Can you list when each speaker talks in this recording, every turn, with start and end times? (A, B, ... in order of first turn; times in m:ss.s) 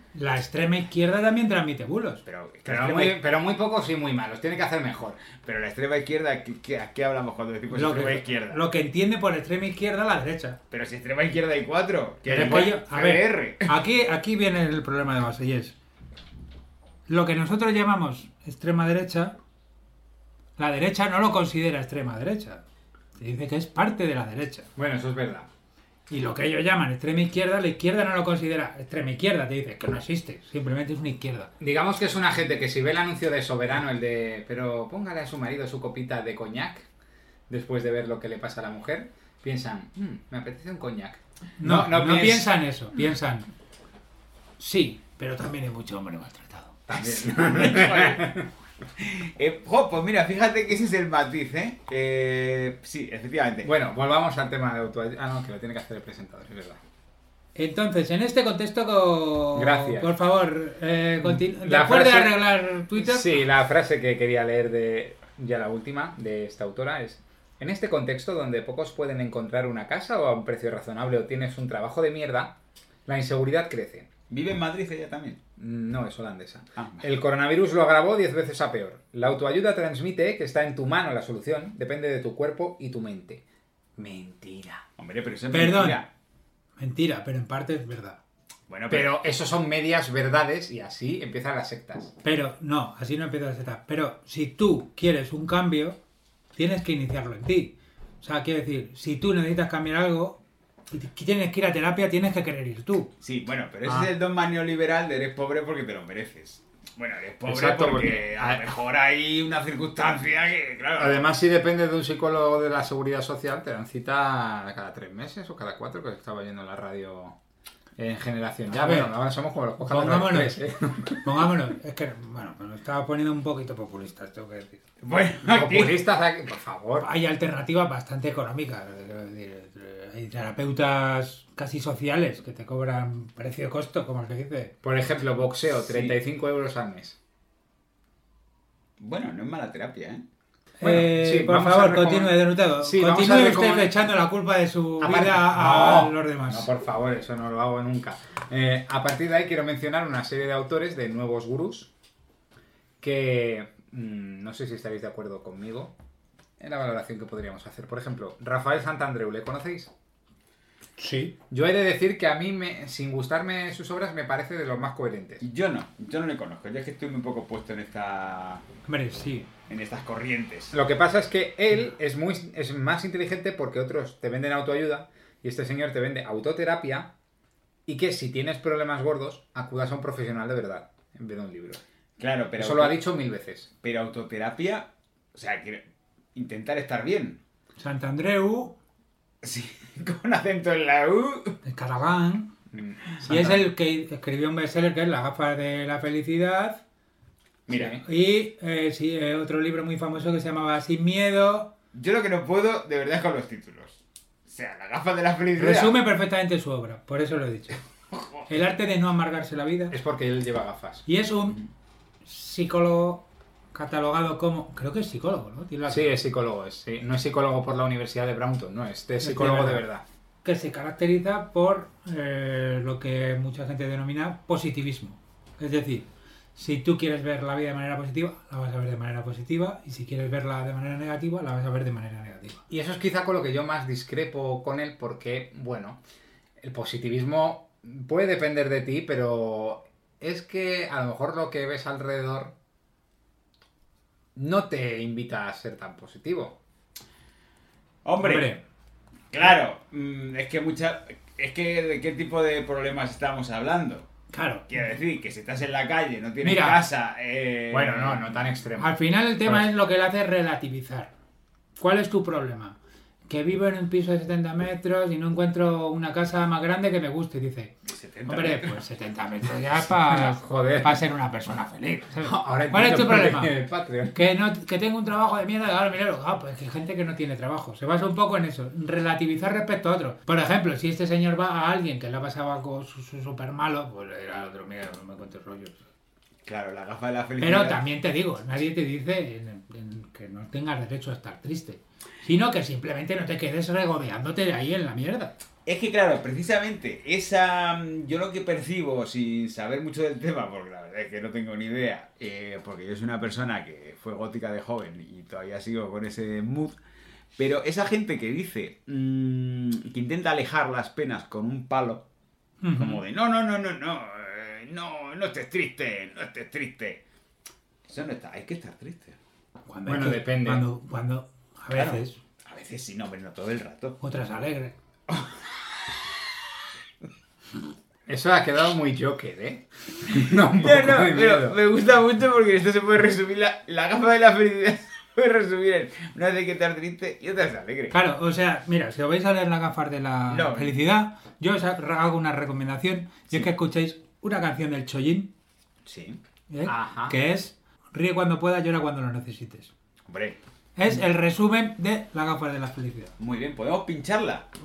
0:00.1-0:02.2 A
0:02.2-0:03.2 B
0:02.6-0:05.2 C
0:05.4-0:08.6 B
0:07.7-0:10.6 A
0:10.7-0:13.7 B
0:12.3-0:15.7 A
0:12.3-0:12.7 C
0:17.1-0:19.4 A
0:20.6-0:22.6 A
0:23.2-0:24.7 A
0:24.8-0:25.5 C
0:26.1-0:31.5 A
0:31.6-0:36.8 C
0:37.5-0:42.5 C
0:41.6-0:43.5 A
0:44.6-0:46.8 A
0:46.9-0:48.5 C
0:46.9-0:48.4 B
0:49.0-0:53.7 B
0:53.6-0:56.8 C
0:57.5-1:03.3 A
0:59.5-1:00.1 C
1:01.2-1:12.5 C
1:13.0-1:14.1 C
1:14.3-1:15.4 B
1:15.6-1:23.4 C
1:16.8-1:17.0 B
1:24.0-1:24.8 C
1:25.0-1:26.1 B
1:25.5-1:26.0 A
1:26.8-1:28.2 A
1:28.7-1:29.2 B
1:28.9-1:32.1 C
1:32.2-1:36.0 A
1:36.6-1:40.4 A
1:40.9-1:43.1 A
1:43.2-1:51.3 B
1:47.4-1:48.6 C
1:51.0-1:57.4 C
1:58.0-2:01.3 C
1:58.7-1:59.1 A
1:59.8-2:00.6 A
2:01.2-2:04.8 A
2:05.0-2:06.1 B
2:05.4-2:07.1 C
2:07.0-2:14.7 A
2:14.8-2:17.2 C
2:15.8-2:16.2 B
2:19.0-2:20.2 B
2:20.8-2:23.9 C
2:20.8-2:26.7 A
2:25.0-2:31.9 C
2:33.0-2:35.9 C
2:36.6-2:39.9 C
2:41.0-2:41.3 A
2:41.5-2:45.4 C
2:45.4-2:48.6 B
2:48.8-2:49.5 A
2:49.7-2:50.7 B
2:50.7-2:57.1 C
2:57.8-3:01.8 C
3:02.2-3:03.0 B
3:02.6-3:03.7 C
3:03.8-3:07.4 B
3:07.8-3:08.7 A
3:09.4-3:11.6 B
3:11.6-3:12.5 A
3:12.7-3:13.7 C
3:13.3-3:16.8 A
3:17.7-3:18.0 B
3:17.7-3:18.0 C
3:18.0-3:21.7 A
3:21.9-3:26.0 B
3:25.6-3:27.8 A
3:28.1-3:28.4 B
3:28.5-3:29.9 A
3:29.9-3:31.0 C
3:31.0-3:31.6 A
3:32.2-3:36.1 A
3:35.9-3:40.0 C
3:39.2-3:39.8 A
3:40.4-3:52.6 A
3:52.7-3:56.0 C
3:56.6-4:02.5 C
4:04.3-4:06.6 C
4:08.0-4:08.5 B
4:08.2-4:08.6 A
4:09.3-4:14.1 B
4:14.3-4:14.7 A
4:14.7-4:18.4 B
4:16.4-4:16.8 A
4:17.7-4:19.7 C
4:18.8-4:21.1 A
4:21.8-4:22.8 A
4:23.3-4:27.7 A
4:27.8-4:28.8 B
4:28.3-4:33.5 A
4:30.0-4:31.0 C
4:32.2-4:34.2 C
4:34.1-4:45.8 A
4:46.4-4:47.8 B
4:47.4-4:55.3 A
4:55.6-5:06.8 B
5:07.4-5:12.0 B
5:12.6-5:13.0 A
5:12.7-5:17.0 B
5:17.9-5:19.2 B
5:19.7-5:22.1 A
5:19.8-5:20.7 C
5:21.7-5:24.0 B
5:24.0-5:24.7 A
5:28.1-5:31.6 C
5:30.5-5:37.9 B
5:37.9-5:45.3 A
5:40.3-5:40.7 B
5:45.8-5:46.2 B
5:46.5-5:49.7 A
5:46.6-5:47.2 C
5:50.1-5:50.4 B
5:50.8-5:53.1 A
5:53.2-5:54.5 B